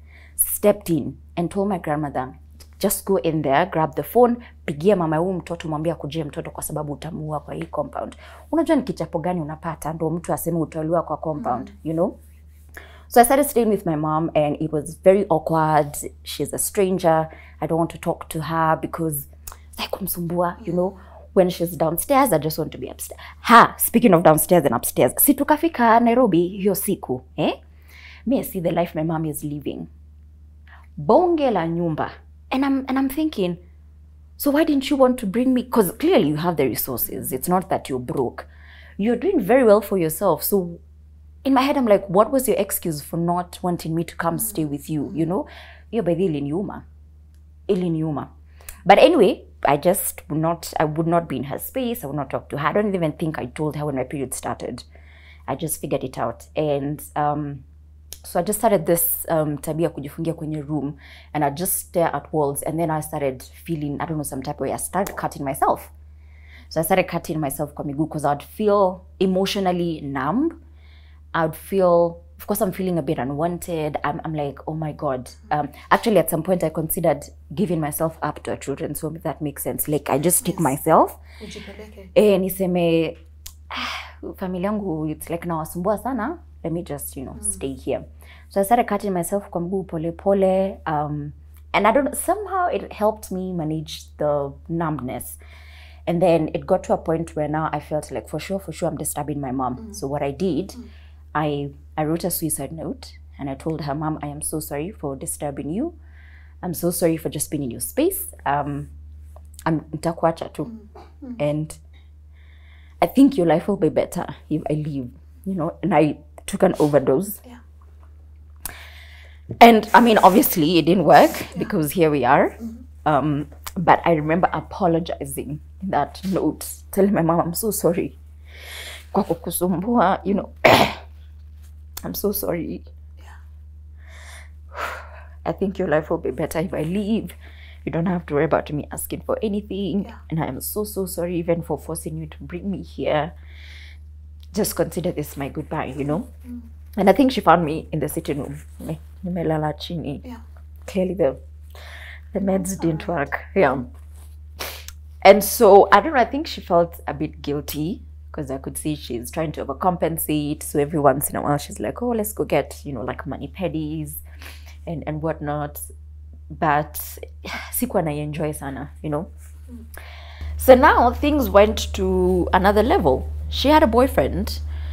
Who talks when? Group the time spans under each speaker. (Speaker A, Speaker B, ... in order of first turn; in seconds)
Speaker A: 0.4-12.2, 13.1-27.6, 28.3-29.9, 31.0-33.6, 34.4-38.5, 39.0-40.8, 41.5-46.9, 47.7-48.3, 48.9-54.9, 55.5-57.6, 58.2-65.9, 66.7-70.6, 71.3-81.2, 82.1-83.2, 83.7-95.4, 96.1-106.0, 106.6-108.9, 109.7-110.8, 111.4-111.8, 113.0-117.4, 119.6-128.2, 129.1-131.0, 132.0-132.9, 134.7-143.3, 144.5-146.3, 147.0-150.2, 150.9-151.4, 152.3-153.9, 155.2-164.2, 164.9-165.9, 166.5-169.3, 170.6-174.6
Speaker B: 11.4-11.7, 20.6-20.9, 80.4-80.7, 81.4-82.1, 152.4-153.8